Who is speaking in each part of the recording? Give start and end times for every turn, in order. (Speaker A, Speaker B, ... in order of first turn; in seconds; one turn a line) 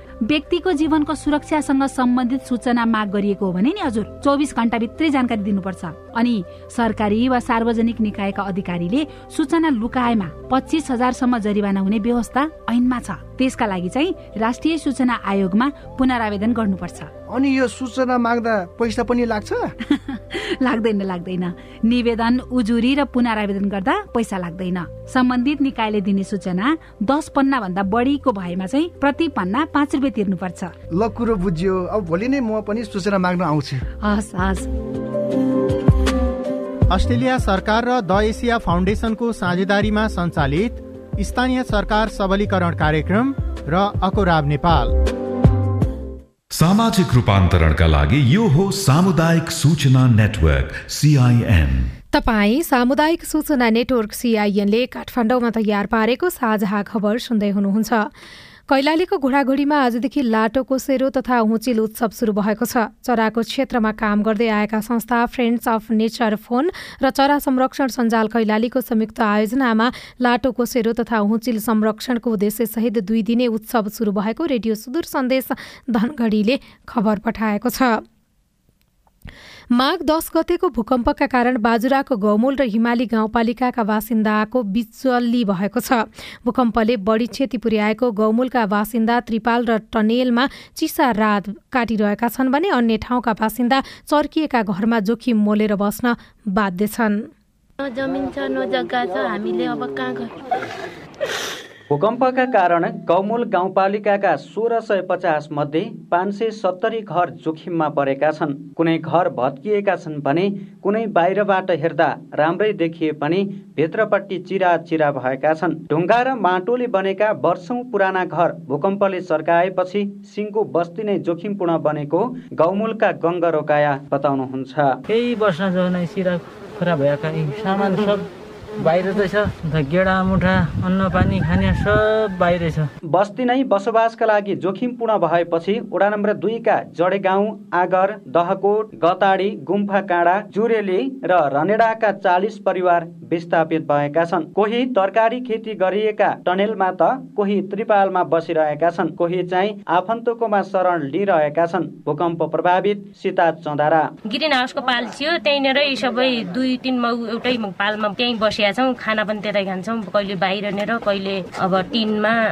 Speaker A: 0.2-17.1
Speaker B: 17.3-19.7
Speaker A: 19.9-30.7
Speaker B: 30.9-33.9
Speaker C: 36.9-44.9
Speaker D: 46.5-51.9
Speaker E: 52.1-58.1
Speaker E: 58.7-78.0
Speaker E: 79.7-97.3
Speaker F: 97.8-100.3
Speaker G: 101.9-125.0
Speaker H: 125.1-132.9
Speaker G: 133.1-154.1
Speaker I: 154.3-162.3